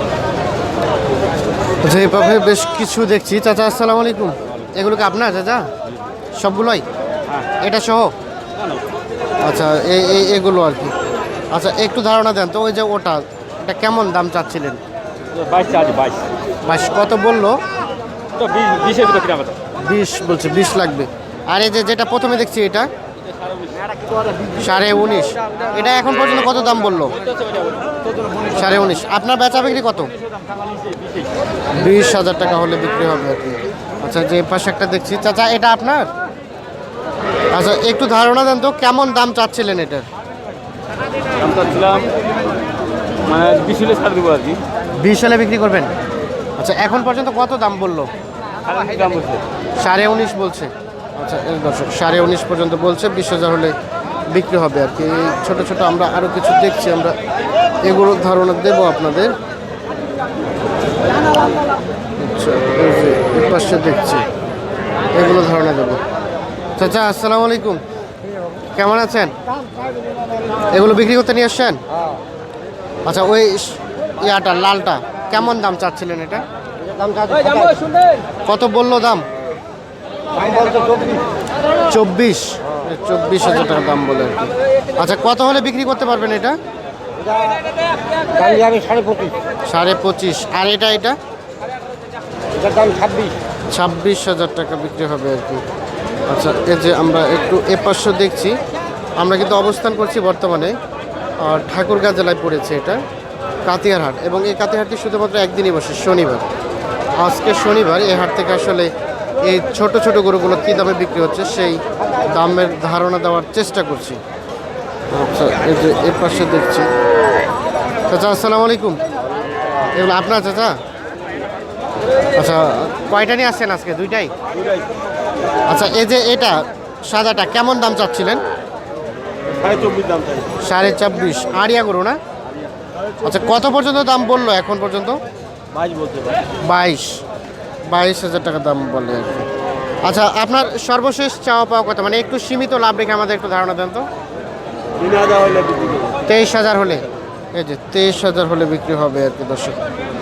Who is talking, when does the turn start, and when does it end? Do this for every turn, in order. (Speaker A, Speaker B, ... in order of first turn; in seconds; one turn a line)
Speaker A: 1.8-5.7
Speaker A: 6.4-6.8
Speaker A: 7.6-8.1
Speaker A: 9.4-10.9
Speaker A: 11.5-14.8
Speaker B: 15.3-16.3
Speaker A: 16.6-17.6
Speaker B: 18.4-19.6
Speaker A: 19.8-22.9
Speaker A: 24.6-27.2
Speaker A: 28.5-30.1
Speaker A: 31.7-36.1
Speaker A: 37.5-40.1
Speaker B: 41.4-42.1
Speaker B: 43.2-44.6
Speaker A: 45.0-45.9
Speaker A: 46.6-48.1
Speaker B: 48.7-49.4
Speaker A: 49.8-53.8
Speaker A: 54.3-57.2
Speaker A: 57.8-59.4
Speaker A: 62.2-64.3
Speaker A: 65.1-66.0
Speaker A: 66.8-67.8
Speaker A: 68.8-69.3
Speaker A: 70.7-71.8
Speaker A: 73.0-76.5
Speaker C: 76.8-78.0
Speaker A: 78.5-79.2
Speaker C: 80.4-81.2
Speaker A: 81.9-86.6
Speaker C: 87.2-87.6
Speaker C: 88.2-89.3
Speaker A: 89.7-91.2
Speaker C: 92.6-93.3
Speaker A: 93.7-95.6
Speaker A: 96.3-98.6
Speaker A: 99.2-100.8
Speaker A: 101.4-103.0
Speaker A: 103.7-106.5
Speaker A: 107.2-108.9
Speaker A: 109.4-114.2
Speaker A: 115.1-116.9
Speaker A: 118.1-119.0
Speaker A: 119.9-120.8
Speaker A: 122.3-124.3
Speaker A: 125.7-128.4
Speaker B: 129.5-130.5
Speaker A: 130.6-132.2
Speaker A: 133.2-135.2
Speaker B: 135.7-136.4
Speaker A: 136.6-137.2
Speaker A: 137.9-139.5
Speaker A: 140.0-144.1
Speaker B: 145.0-146.2
Speaker A: 146.2-149.8